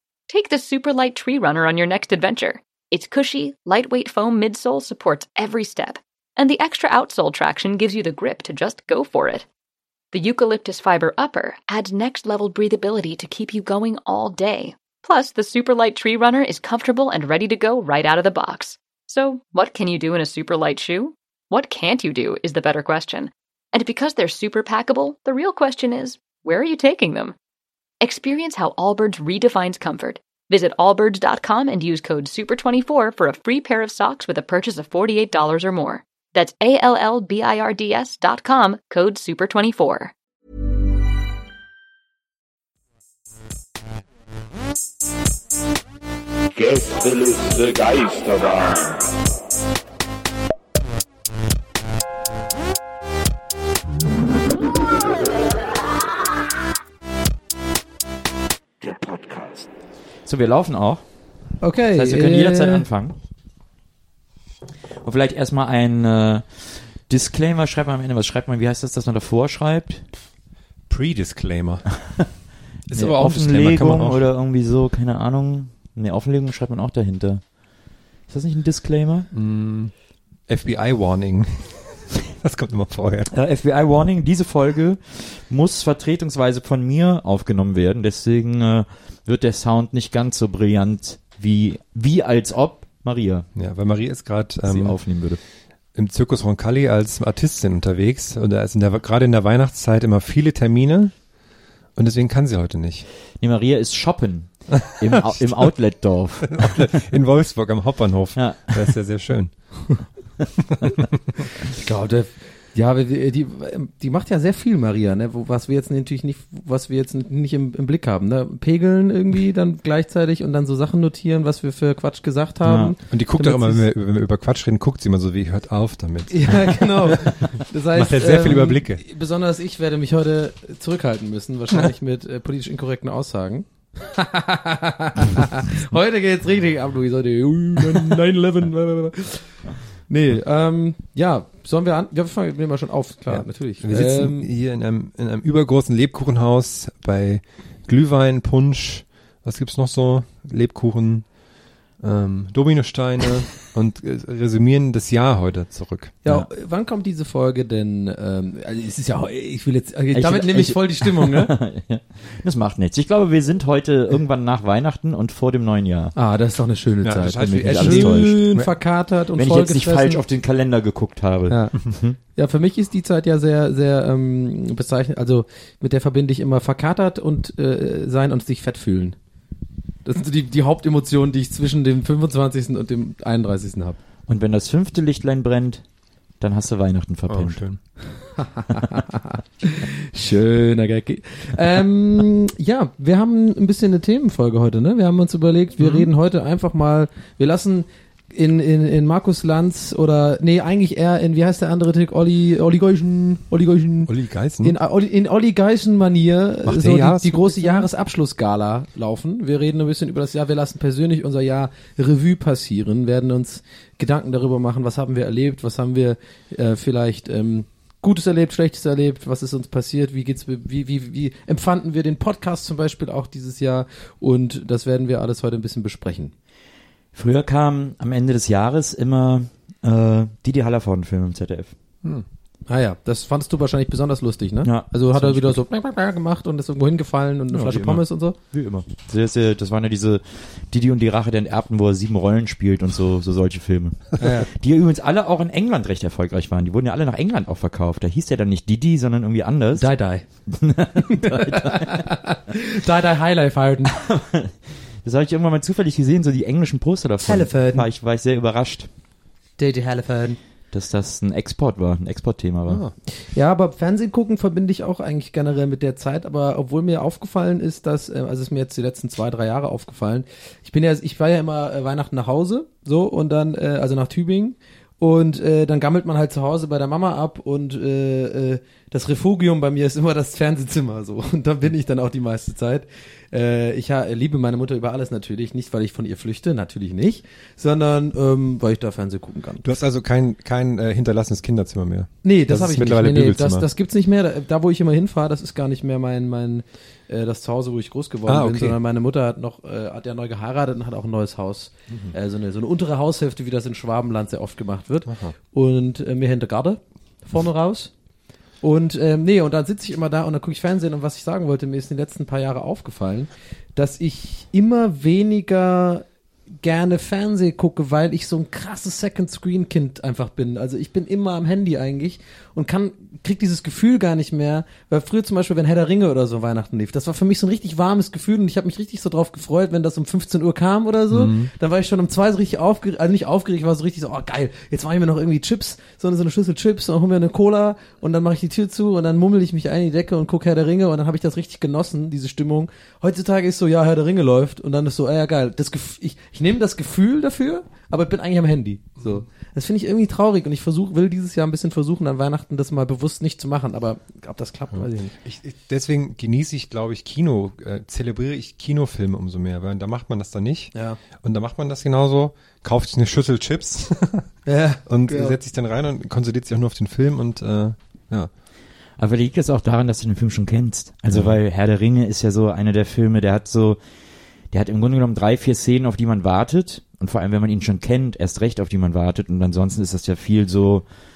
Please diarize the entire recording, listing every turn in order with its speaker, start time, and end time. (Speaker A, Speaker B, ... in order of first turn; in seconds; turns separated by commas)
Speaker A: 0.3-9.4, Speaker A: 10.1-27.4, Speaker A: 28.0-40.1, Speaker B: 46.6-49.0, Speaker B: 58.8-59.5, Speaker C: 60.2-61.0, Speaker D: 61.6-62.9, Speaker C: 62.0-63.1, Speaker C: 65.0-70.1, Speaker E: 70.9-72.0, Speaker E: 72.9-74.2, Speaker C: 72.9-77.5, Speaker C: 78.3-79.3, Speaker E: 79.3-79.9, Speaker E: 80.5-83.3, Speaker C: 83.3-93.5, Speaker E: 93.5-95.0, Speaker C: 94.6-95.4, Speaker E: 95.9-101.1, Speaker E: 102.0-103.1, Speaker C: 103.4-107.0, Speaker E: 105.0-105.7, Speaker E: 106.5-109.5, Speaker C: 108.3-108.9, Speaker E: 110.7-111.0, Speaker D: 111.7-123.8, Speaker C: 122.6-122.9, Speaker E: 123.1-127.3, Speaker D: 126.3-139.5, Speaker E: 127.9-129.0, Speaker D: 140.1-144.5, Speaker E: 143.3-151.3, Speaker E: 152.0-156.2, Speaker D: 156.2-161.5, Speaker C: 160.1-166.1, Speaker D: 166.2-170.2, Speaker E: 167.0-168.7, Speaker C: 167.2-168.5, Speaker C: 169.3-172.2, Speaker D: 171.5-171.7, Speaker D: 172.3-179.2, Speaker D: 180.0-184.0, Speaker C: 184.3-185.8, Speaker C: 186.4-187.6, Speaker E: 187.3-187.8, Speaker D: 188.3-226.3, Speaker E: 195.8-196.1, Speaker E: 204.1-204.7, Speaker E: 206.6-207.9, Speaker C: 227.1-231.7, Speaker D: 232.7-238.3, Speaker C: 234.6-235.6, Speaker C: 237.5-249.9, Speaker D: 244.2-244.5, Speaker D: 249.8-250.2, Speaker C: 250.4-252.0, Speaker D: 251.1-253.9, Speaker C: 253.9-258.9, Speaker D: 257.2-257.9, Speaker D: 259.6-260.4, Speaker C: 260.7-262.8, Speaker E: 262.7-262.9, Speaker D: 263.3-289.6, Speaker E: 289.6-293.6, Speaker D: 292.2-307.9, Speaker E: 298.2-298.8, Speaker E: 301.9-302.1, Speaker E: 305.1-305.3, Speaker D: 308.6-316.1, Speaker D: 316.6-355.1, Speaker E: 331.1-331.5, Speaker E: 354.7-364.3, Speaker D: 360.7-361.0, Speaker D: 364.4-365.4, Speaker E: 364.9-368.3, Speaker C: 369.0-373.8, Speaker E: 371.1-371.4, Speaker C: 374.5-380.9